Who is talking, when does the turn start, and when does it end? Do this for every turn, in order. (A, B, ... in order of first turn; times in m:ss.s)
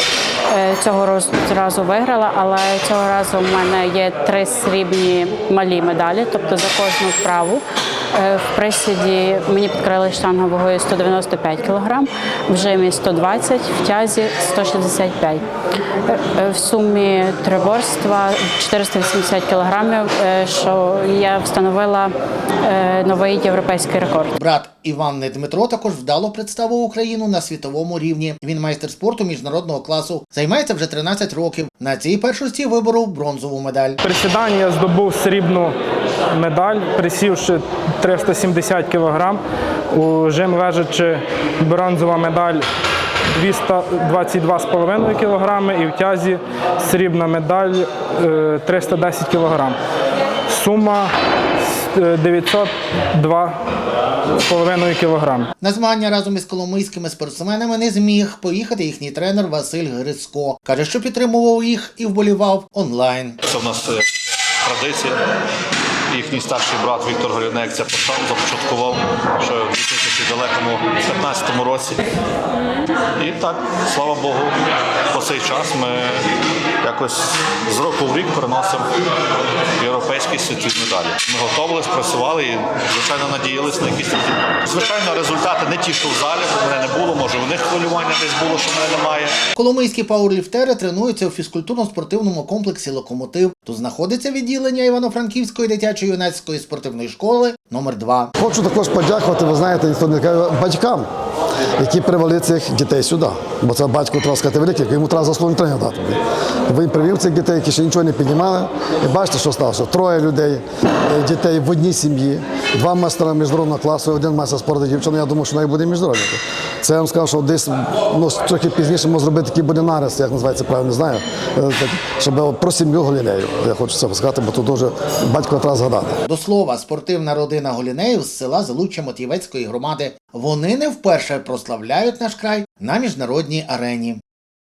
0:00.5-0:15.4 A
0:16.1-0:24.3 A
0:24.4-0:34.0 B
0:34.0-0:35.8 C
0:36.3-0:39.4 C
0:39.9-0:42.6 C
0:43.3-0:49.8 C
0:50.5-0:51.1 C
0:52.0-0:53.6 C
0:54.4-0:55.5 C
0:55.6-1:03.4 B
1:03.4-1:05.2 D
1:06.1-1:12.0 D
1:13.2-1:14.6 D
1:15.1-1:16.3 D
1:16.8-1:18.9 D
1:19.8-1:29.4 D
1:29.6-1:38.3 B
1:38.4-1:41.1 E
1:41.8-2:06.2 E
2:06.2-2:14.2 B